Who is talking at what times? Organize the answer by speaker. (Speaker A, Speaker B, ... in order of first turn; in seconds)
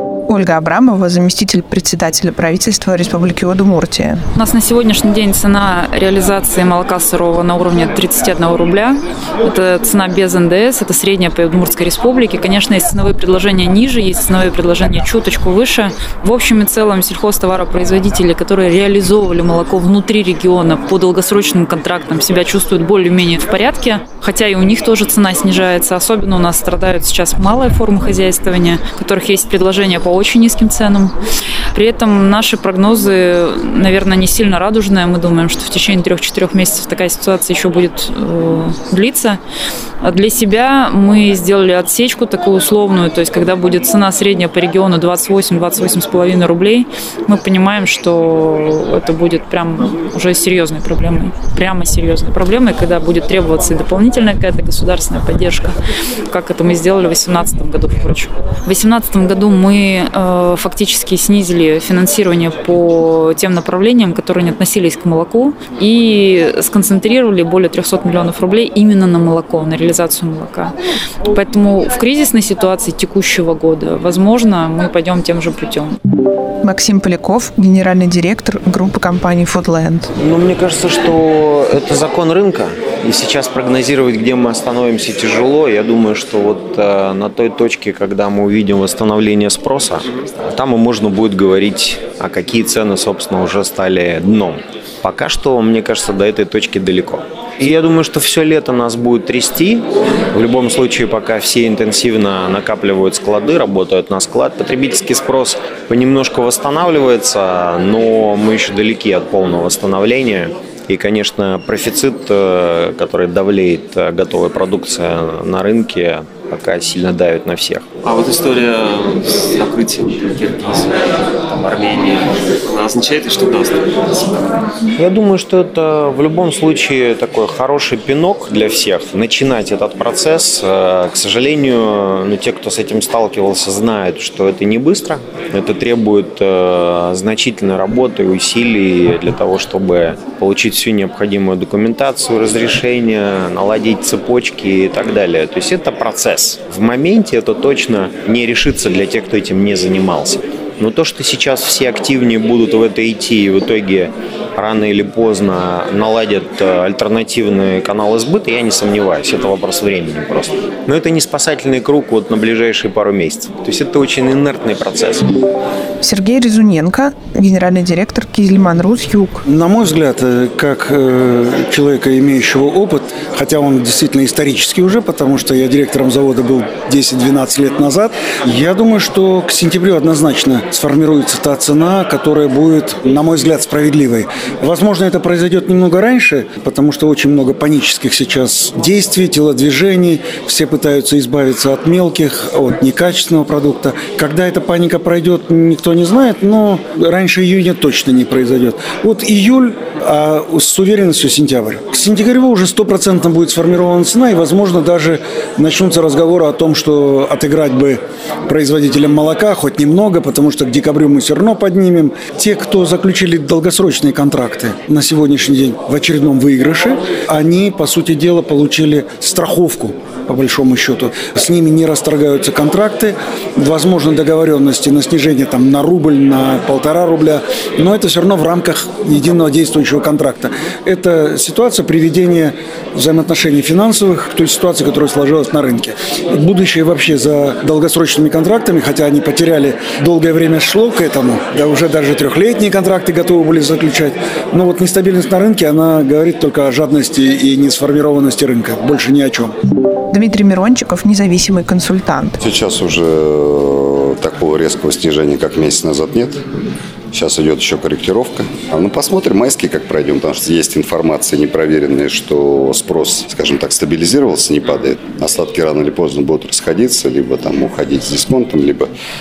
Speaker A: 0.3-4.2, 76.6-80.1, 166.0-169.4, 250.1-252.4
Speaker B: 4.3-31.1, 31.7-39.4, 40.0-55.8, 56.3-70.7, 71.3-76.0
Speaker C: 80.2-117.8, 125.0-165.2
Speaker D: 118.0-124.4
Speaker E: 169.4-249.5
Speaker F: 252.4-256.4, 257.1-268.9